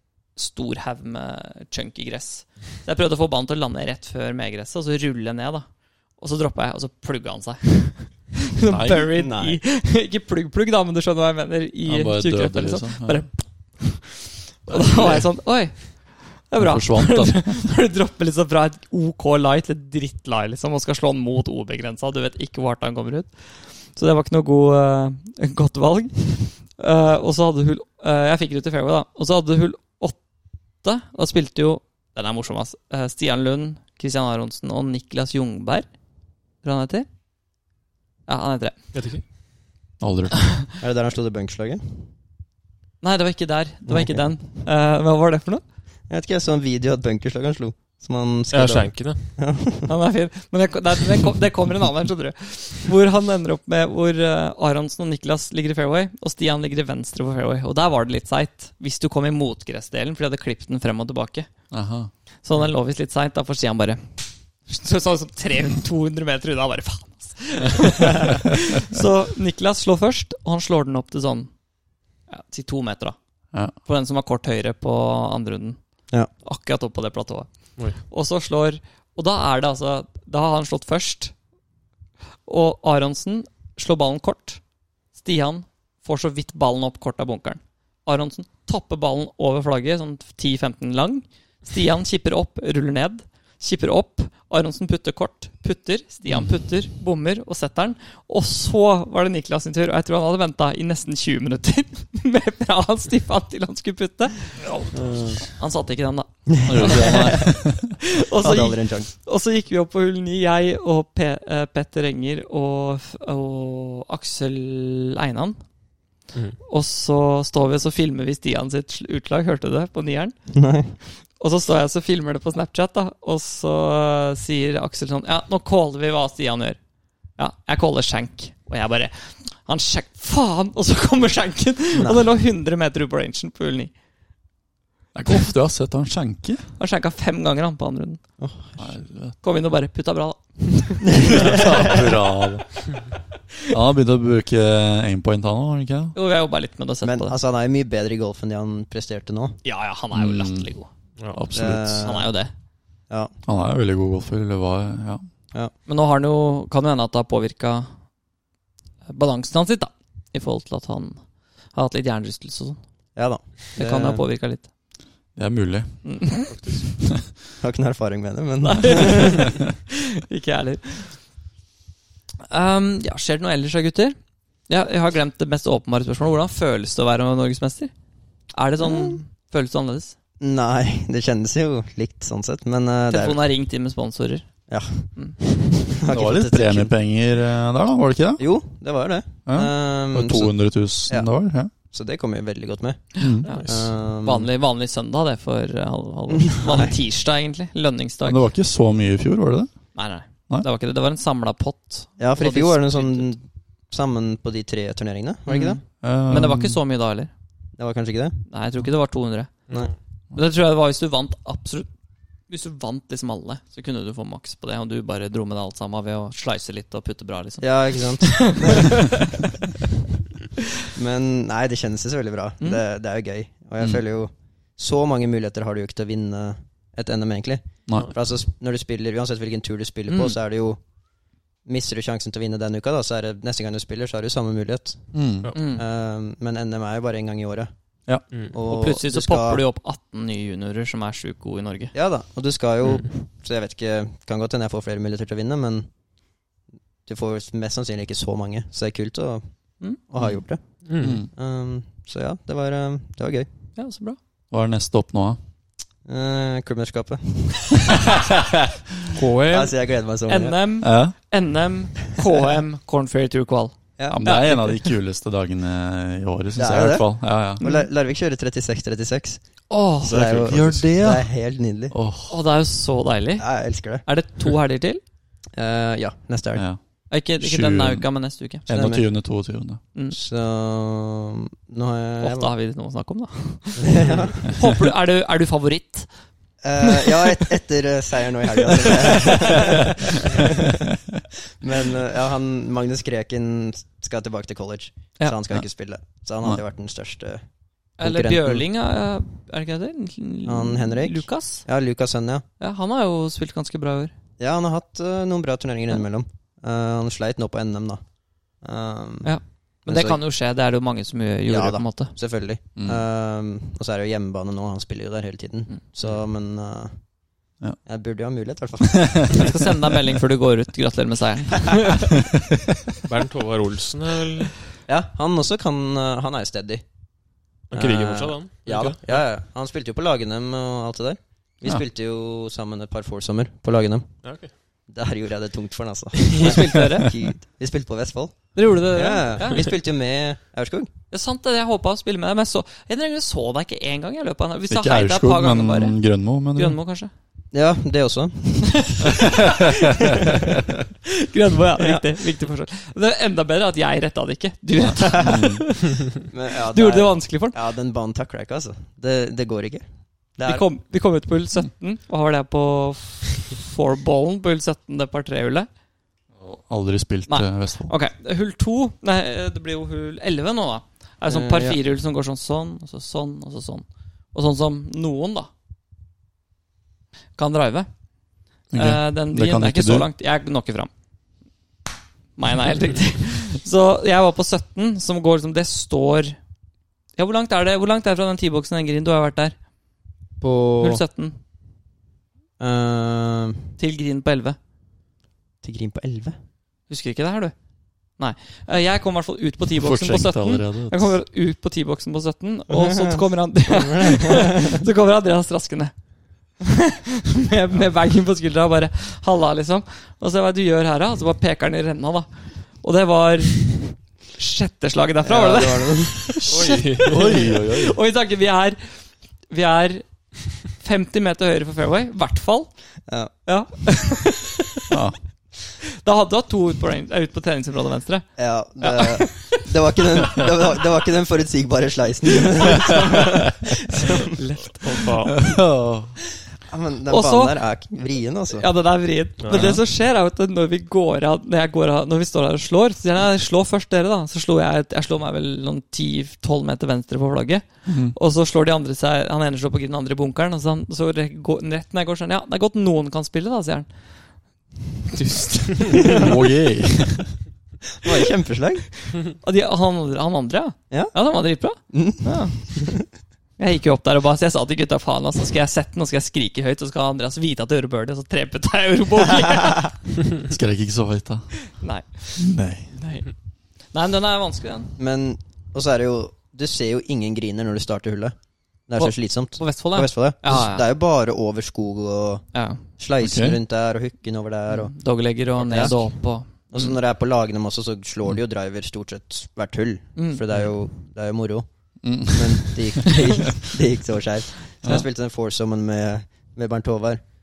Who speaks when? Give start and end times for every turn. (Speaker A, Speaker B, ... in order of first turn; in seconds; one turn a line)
Speaker A: 0.3-30.2
Speaker B: 8.7-9.1
Speaker C: 9.1-9.6
Speaker B: 11.8-13.3
Speaker D: 14.7-15.2
Speaker B: 16.6-17.6
Speaker A: 30.8-35.9
Speaker A: 36.6-37.1
Speaker A: 38.2-38.8
Speaker D: 38.9-39.2
Speaker B: 40.0-40.5
Speaker C: 40.8-42.1
Speaker A: 43.0-45.6
Speaker C: 43.9-44.3
Speaker C: 46.1-49.9
Speaker D: 48.5-49.4
Speaker A: 49.9-61.5
Speaker B: 61.7-62.1
Speaker A: 62.4-71.5
Speaker A: 72.3-73.2
Speaker A: 73.8-75.8
Speaker A: 76.4-81.3
Speaker A: 82.5-84.6
Speaker A: 85.1-104.7
Speaker C: 104.9-105.4
Speaker A: 105.5-107.5
Speaker C: 106.5-107.5
Speaker B: 106.6-108.0
Speaker A: 108.1-115.6
Speaker C: 108.4-109.1
Speaker D: 116.3-116.6
Speaker A: 116.6-120.4
Speaker C: 120.5-121.0
Speaker A: 121.4-126.8
Speaker A: 127.4-133.9
Speaker C: 131.9-132.2
Speaker B: 135.1-136.7
Speaker A: 136.8-138.2
Speaker C: 138.4-138.9
Speaker B: 138.8-139.4
Speaker A: 139.4-141.8
Speaker C: 141.1-141.9
Speaker B: 141.3-142.8
Speaker B: 143.7-146.1
Speaker A: 146.1-147.3
Speaker C: 147.0-149.6
Speaker A: 149.6-150.9
Speaker B: 150.1-150.7
Speaker B: 151.3-152.1
Speaker C: 151.5-152.3
Speaker A: 152.0-152.5
Speaker B: 153.4-155.2
Speaker A: 155.8-157.9
Speaker A: 159.1-161.2
Speaker A: 161.7-162.8
Speaker C: 163.2-164.2
Speaker A: 163.7-164.7
Speaker B: 165.3-166.4
Speaker A: 166.0-166.5
Speaker D: 166.5-166.9
Speaker C: 167.6-169.5
Speaker A: 168.6-171.2
Speaker A: 172.5-174.2
Speaker A: 174.7-177.9
Speaker A: 178.5-180.1
Speaker C: 178.8-179.2
Speaker C: 180.4-183.4
Speaker A: 183.1-185.4
Speaker C: 184.7-186.9
Speaker B: 186.1-188.4
Speaker C: 188.4-194.5
Speaker B: 189.5-191.7
Speaker B: 193.2-193.5
Speaker A: 193.4-198.4
Speaker D: 193.5-193.9
Speaker C: 196.4-196.9
Speaker B: 198.2-199.8
Speaker A: 199.9-203.3
Speaker C: 202.2-205.8
Speaker A: 205.5-207.3
Speaker B: 206.0-206.8
Speaker C: 207.8-208.4
Speaker A: 208.5-209.7
Speaker D: 209.7-209.9
Speaker A: 210.3-211.9
Speaker A: 212.5-219.2
Speaker C: 217.6-219.2
Speaker C: 220.9-230.8
Speaker B: 227.9-228.1
Speaker A: 230.1-230.3
Speaker C: 231.6-235.2
Speaker B: 235.1-235.5
Speaker A: 235.5-235.8
Speaker C: 235.7-237.7
Speaker C: 238.5-239.6
Speaker A: 238.7-241.9
Speaker C: 241.9-245.9
Speaker C: 247.1-253.5
Speaker A: 249.8-250.4
Speaker D: 250.8-251.2
Speaker B: 251.0-251.3
Speaker A: 253.7-254.2
Speaker B: 254.5-255.4
Speaker C: 256.1-258.2
Speaker D: 259.1-259.7
Speaker C: 259.5-260.6
Speaker A: 260.3-264.9
Speaker B: 260.8-261.1
Speaker C: 264.0-264.2
Speaker B: 264.1-267.6
Speaker C: 266.6-269.4
Speaker A: 267.6-267.9
Speaker A: 269.7-270.3
Speaker D: 270.0-270.9
Speaker C: 270.1-271.9
Speaker B: 270.5-271.3
Speaker B: 271.9-272.4
Speaker A: 272.3-275.0
Speaker C: 273.4-274.0
Speaker C: 275.5-276.6
Speaker B: 276.5-279.8
Speaker A: 277.1-278.6
Speaker C: 278.7-279.0
Speaker C: 280.1-282.5
Speaker A: 282.2-286.1
Speaker C: 283.8-284.5
Speaker C: 286.6-290.9
Speaker A: 286.9-287.1
Speaker A: 288.8-289.4
Speaker C: 291.6-297.4
Speaker A: 298.0-301.6
Speaker C: 298.0-298.6
Speaker C: 300.4-302.4
Speaker A: 302.6-304.1
Speaker C: 304.4-309.3
Speaker A: 309.2-312.1
Speaker C: 309.8-310.2
Speaker C: 311.5-317.1
Speaker B: 312.8-313.0
Speaker C: 317.9-319.6
Speaker A: 319.3-322.1
Speaker D: 323.0-324.5
Speaker C: 324.9-326.8
Speaker D: 327.7-329.2
Speaker C: 327.7-334.1
Speaker D: 334.2-334.5
Speaker C: 334.9-340.9
Speaker A: 336.3-337.1
Speaker A: 338.5-339.7
Speaker A: 341.1-346.0
Speaker B: 344.7-346.8
Speaker A: 346.5-347.1
Speaker C: 347.5-349.4
Speaker B: 349.2-350.5
Speaker C: 350.1-350.4
Speaker A: 351.1-356.1
Speaker C: 351.8-352.0
Speaker B: 354.9-355.6
Speaker C: 356.3-360.6
Speaker A: 356.6-357.6
Speaker A: 360.4-365.7
Speaker B: 366.4-367.9
Speaker A: 367.3-375.5
Speaker C: 371.3-371.8
Speaker A: 377.4-377.9
Speaker B: 378.7-380.1
Speaker A: 378.7-380.9
Speaker A: 382.4-386.4
Speaker A: 387.1-389.6
Speaker C: 390.4-391.0
Speaker A: 390.8-391.4
Speaker C: 392.6-393.7
Speaker A: 393.8-394.6
Speaker C: 395.6-396.4
Speaker A: 396.9-397.5
Speaker A: 398.2-405.9
Speaker B: 399.8-401.2
Speaker C: 402.7-404.8
Speaker A: 406.6-412.3
Speaker A: 412.8-418.8
Speaker C: 415.2-416.5
Speaker D: 416.5-417.5
Speaker B: 416.9-418.0
Speaker A: 419.5-420.1
Speaker A: 420.6-422.7
Speaker C: 423.1-423.3
Speaker A: 423.4-424.5
Speaker B: 424.9-425.2
Speaker A: 425.9-429.7
Speaker C: 428.4-434.4
Speaker A: 434.3-435.0
Speaker D: 434.8-435.5
Speaker B: 435.4-436.2
Speaker C: 436.7-438.6
Speaker A: 437.1-437.6
Speaker A: 438.5-453.9
Speaker D: 439.4-439.8
Speaker B: 447.9-448.1
Speaker D: 455.1-456.2
Speaker B: 456.0-457.3
Speaker C: 458.0-458.9
Speaker A: 459.3-462.8
Speaker C: 460.9-461.1
Speaker C: 461.8-463.0
Speaker A: 463.6-470.0
Speaker B: 470.4-471.6
Speaker A: 471.8-473.3
Speaker B: 472.4-472.9
Speaker A: 473.9-474.9
Speaker C: 475.0-484.9
Speaker A: 478.9-480.9
Speaker A: 482.5-482.8
Speaker B: 483.2-483.6
Speaker A: 484.7-486.9
Speaker C: 485.6-491.7
Speaker A: 490.1-490.4
Speaker B: 492.0-493.2
Speaker C: 492.2-497.2